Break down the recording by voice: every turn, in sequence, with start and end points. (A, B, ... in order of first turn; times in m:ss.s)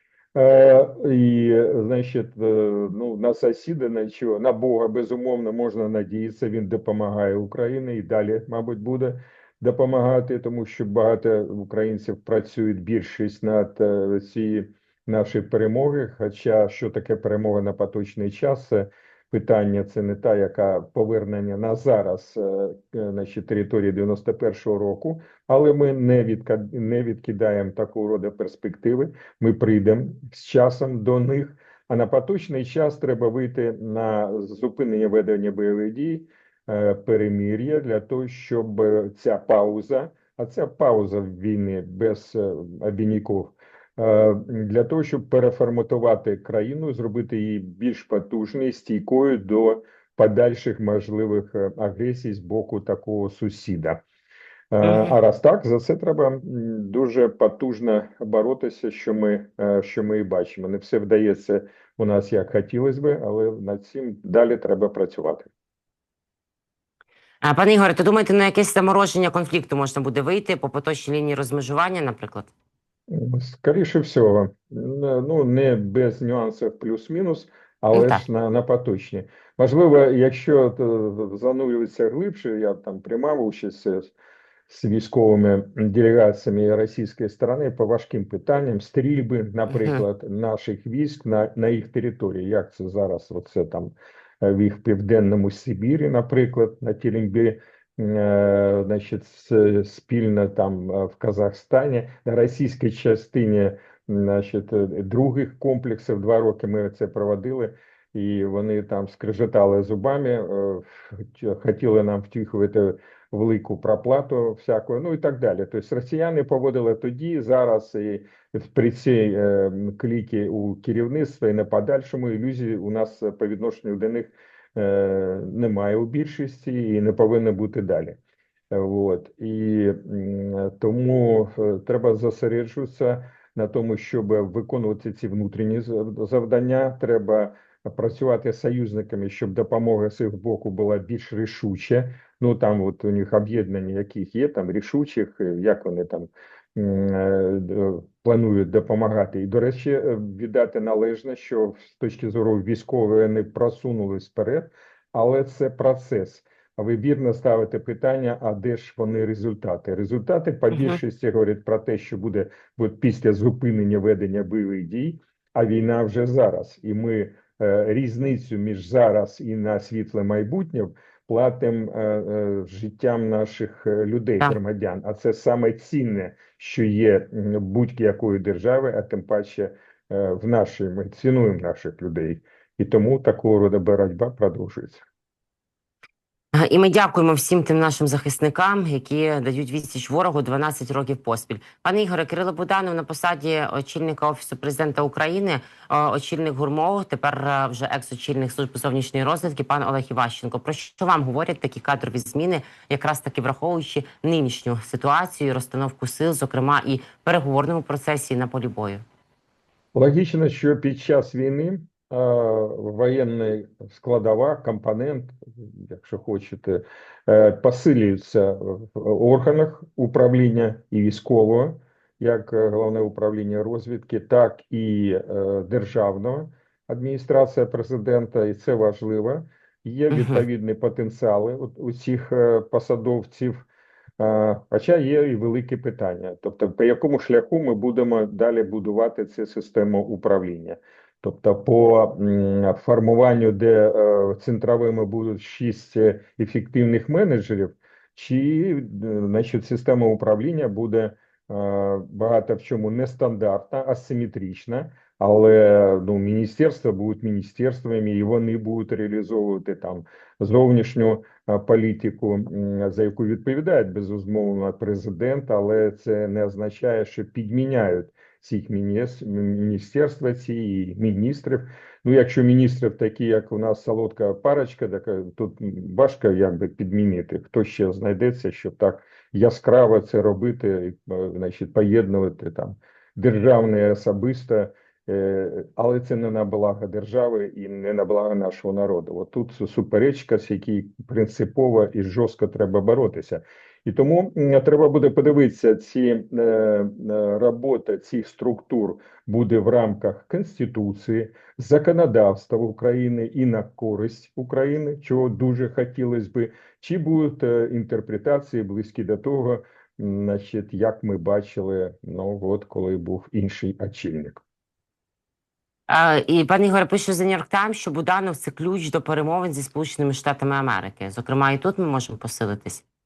0:00.3-0:54.0 A
0:54.7-1:05.5 A
0:54.8-0:55.1 B
1:07.4-1:12.5 B
1:13.1-1:24.1 A
1:17.9-1:18.2 B
1:24.7-2:08.2 A
1:29.7-1:30.0 B
2:08.7-3:05.0 A
3:06.5-3:29.0 B
3:29.9-3:53.7 A
3:50.1-3:50.4 B
3:54.2-5:14.4 A
5:15.9-5:22.8 B